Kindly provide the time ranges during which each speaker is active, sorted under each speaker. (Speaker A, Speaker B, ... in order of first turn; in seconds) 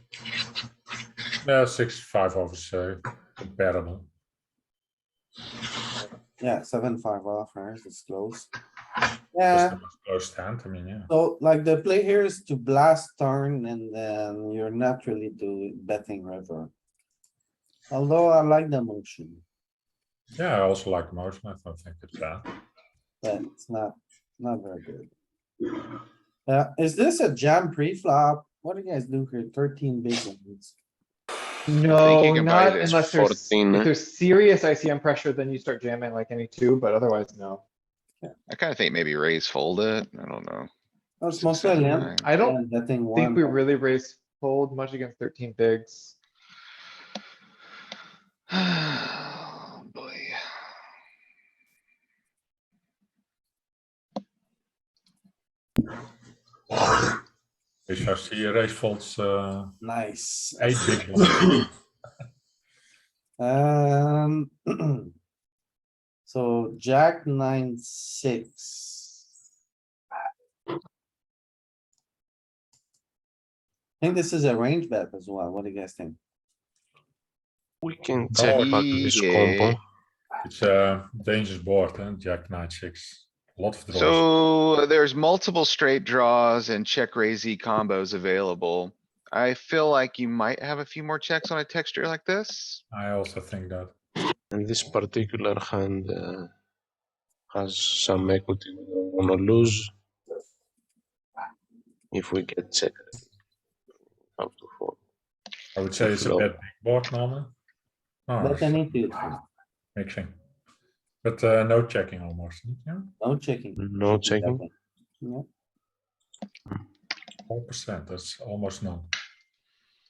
Speaker A: 1.4-4.1, 9.5-11.1, 20.4-22.4, 57.9-59.7, 60.6-61.6, 78.3-78.8, 80.4-84.2, 92.9-93.9, 105.8-107.5, 108.3-108.9, 109.9-110.3, 111.2-113.1, 117.5-119.1
Speaker B: 6.4-8.5, 9.3-9.8, 11.1-16.7, 17.9-19.4, 23.2-25.1, 26.5-30.7, 41.2-43.6, 59.8-60.8, 63.4-65.1, 66.2-69.2, 74.0-76.2, 108.4-109.4, 113.2-115.5
Speaker C: 31.7-37.6, 42.2-42.6, 43.1-46.1
Speaker D: 31.9-33.0, 38.5-40.7, 41.4-42.3, 48.5-50.4, 78.4-79.8, 83.9-92.8
Speaker E: 32.8-33.9, 77.8-79.8, 94.5-96.5, 97.5-99.9, 102.1-103.1, 104.4-105.0, 106.0-106.5, 113.8-114.6